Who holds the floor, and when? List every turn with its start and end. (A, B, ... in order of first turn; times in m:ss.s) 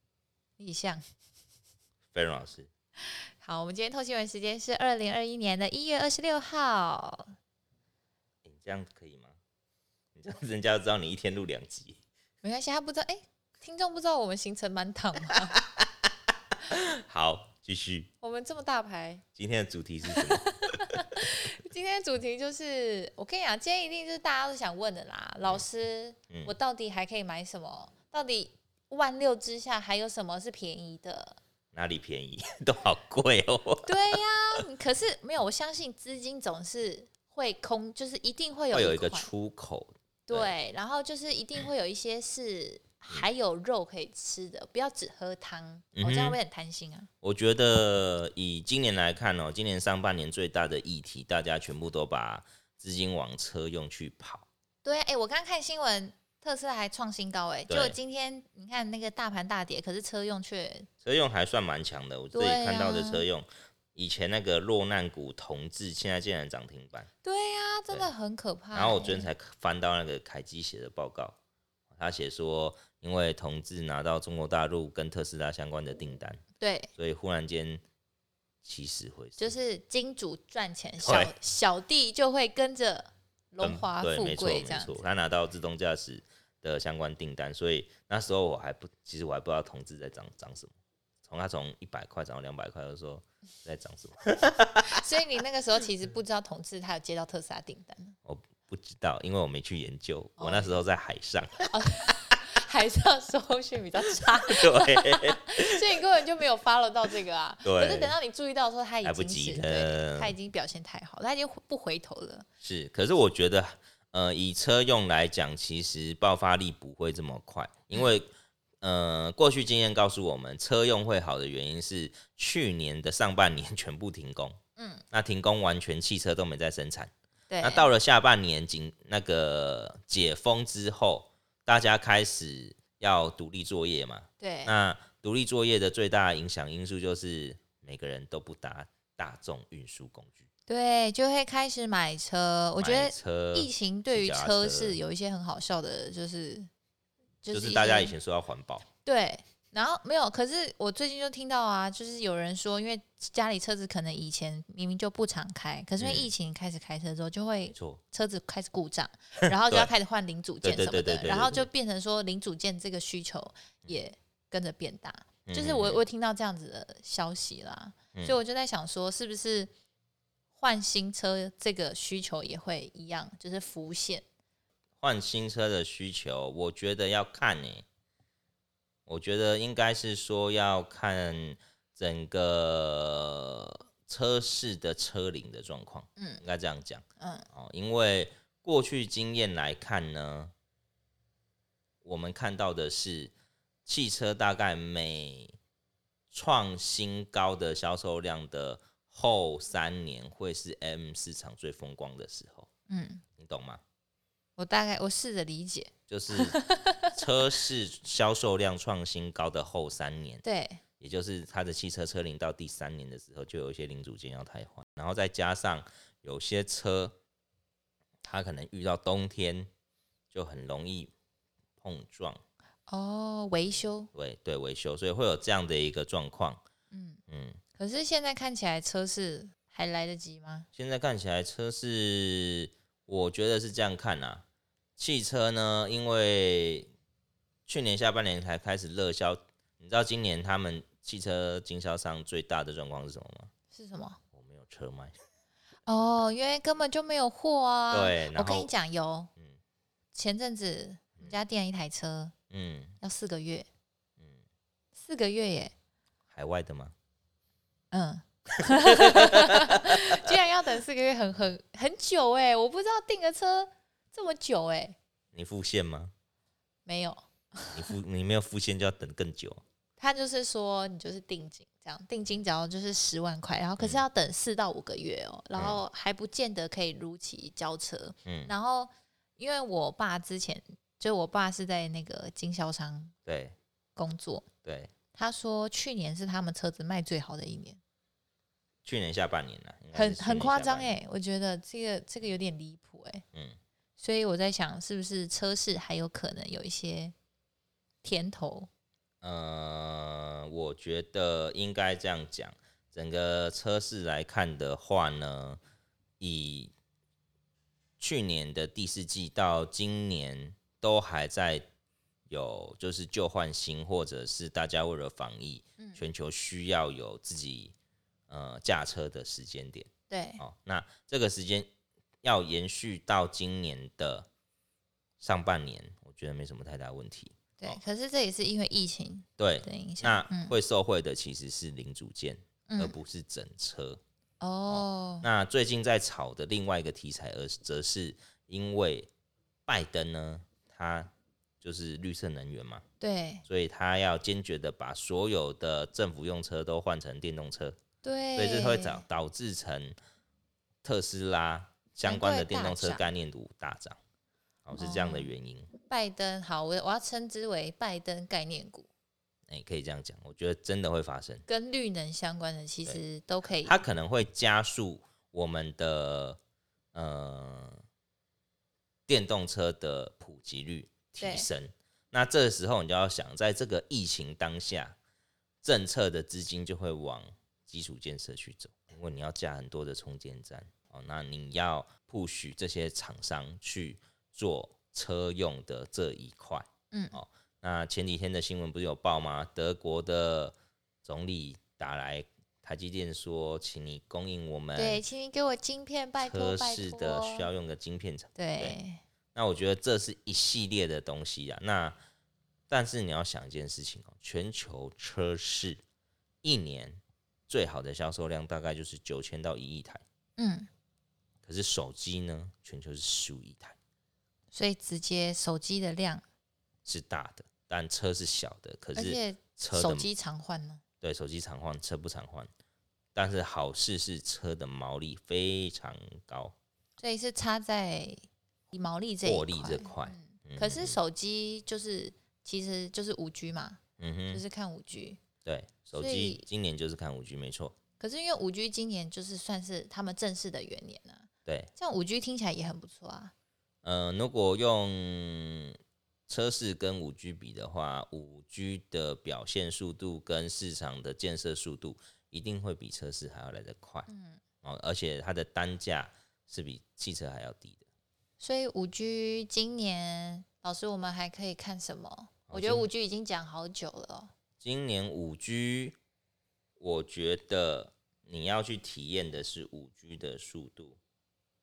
0:00.6-0:01.0 A
0:02.1-0:02.7 B
0:03.0-0:07.3 A
0:08.4-0:09.4 B
0:10.2-0:12.0 B
0:12.4-0:15.6 A
0:16.7-0:18.1 B
0:18.2-0:19.2 A
0:19.4-0:20.8 B
0:20.1-0:31.4 A
0:26.3-0:26.6 B
0:31.7-0:33.9 B
0:33.8-0:39.3 A
0:38.7-0:40.5 B
0:40.3-0:47.1 A
0:46.0-0:46.4 B
0:47.2-0:54.5 B
0:54.8-1:00.9 A
0:57.7-0:58.0 B
1:01.0-1:07.1 B
1:02.3-1:03.2 A
1:07.2-1:09.3 A
1:08.7-1:11.4 B
1:11.9-1:16.4 B
1:16.6-1:16.9 A
1:17.0-1:17.8 B
1:18.6-1:19.6 B
1:19.4-1:25.1 A
1:21.0-1:21.3 B
1:23.6-1:30.7 B
1:31.2-1:35.0 B
1:34.8-1:38.2 A
1:38.2-1:41.7 B
1:40.4-1:40.8 A
1:41.7-1:52.4 A
1:44.5-1:46.0 B
1:47.6-1:48.2 B
1:49.0-1:50.4 B
1:52.6-1:58.3 B
1:58.8-2:04.6 B
2:04.8-2:05.0 A
2:05.1-2:20.5 B
2:07.5-2:07.9 A
2:14.4-2:14.7 A
2:20.7-2:26.7 A
2:22.8-2:25.0 B
2:27.4-2:28.2 A
2:27.5-2:28.9 B
2:29.0-2:49.7 A
2:36.0-2:36.3 B
2:37.7-2:38.0 B
2:40.6-2:41.7 B
2:45.5-2:46.0 B
2:50.6-2:54.2 A
2:55.0-2:57.9 B
2:59.1-3:10.5 B
3:07.2-3:07.5 A
3:12.0-3:13.3 B
3:13.9-3:15.6 B
3:16.3-3:22.7 B
3:22.9-3:23.2 A
3:23.4-3:23.8 B
3:24.6-3:27.1 A
3:26.1-3:30.4 B
3:30.4-3:30.8 A
3:31.0-3:37.2 B
3:38.2-3:39.7 B
3:40.3-3:41.1 B
3:41.8-3:42.4 B
3:42.9-3:44.1 A
3:44.1-3:46.6 B
3:46.9-3:47.2 A
3:47.3-3:47.6 B
3:47.8-3:50.7 A
3:50.8-3:54.4 B
3:55.0-3:56.9 B
3:57.7-4:03.5 B
4:03.7-4:04.2 A
4:04.3-4:05.2 B
4:05.9-4:09.3 A
4:07.9-4:08.7 B
4:10.1-4:12.3 A
4:12.5-4:13.0 B
4:13.0-4:13.7 A
4:15.0-4:15.7 A
4:16.3-4:16.9 B
4:17.9-4:25.0 A
4:25.3-4:26.1 B
4:26.9-4:27.9 A
4:27.7-4:29.6 B
4:30.0-4:43.1 A
4:35.6-4:35.8 B
4:38.2-4:38.5 B
4:43.3-4:43.6 B
4:44.0-4:44.5 A
4:44.6-4:44.9 B
4:45.1-4:47.8 A
4:48.8-4:51.0 B
4:49.9-4:53.2 A
4:54.0-4:57.1 A
4:58.0-4:58.7 A
4:59.2-5:05.6 B
5:06.2-5:06.7 B
5:08.0-5:11.7 B
5:12.3-5:17.8 B
5:18.3-5:21.7 B
5:20.1-5:20.4 A
5:22.2-5:24.3 B
5:25.2-5:27.8 B
5:27.6-5:30.6 A
5:29.4-5:34.0 B
5:32.7-5:33.0 A
5:34.4-5:35.2 A
5:34.7-5:39.1 B
5:39.7-5:42.8 B
5:43.0-5:43.4 A
5:43.5-5:47.8 B
5:48.0-5:49.0 A
5:48.4-5:50.0 B
5:50.8-5:54.0 B
5:52.0-5:53.1 A
5:54.7-5:55.7 B
5:54.8-5:58.9 A
5:59.5-6:01.4 B
6:01.5-6:03.8 A
6:02.9-6:06.4 B
6:06.9-6:07.8 B
6:09.1-6:15.0 B
6:11.2-6:11.5 A
6:15.6-6:35.0 B
6:26.9-6:27.2 A
6:34.8-6:37.5 A
6:36.2-6:38.8 B
6:38.4-6:39.0 A
6:39.4-6:42.0 B
6:42.7-6:45.8 B
6:46.4-6:50.0 B
6:50.4-6:50.7 A
6:51.4-6:53.8 B
6:54.5-6:56.2 A
6:56.8-7:00.1 B
6:59.0-7:00.8 A
7:01.0-7:02.5 B
7:03.2-7:06.6 B
7:07.0-7:13.8 A
7:09.2-7:11.0 B
7:14.0-7:14.4 B
7:14.3-7:15.2 A
7:15.4-7:17.8 B
7:15.9-7:16.4 A
7:18.0-7:23.3 A
7:21.5-7:21.7 B
7:23.8-7:25.8 B
7:26.3-7:34.1 B
7:34.1-7:34.4 A
7:34.6-7:37.8 B
7:38.4-7:44.3 A
7:42.5-7:42.9 B
7:44.6-7:46.0 B
7:46.8-7:51.0 B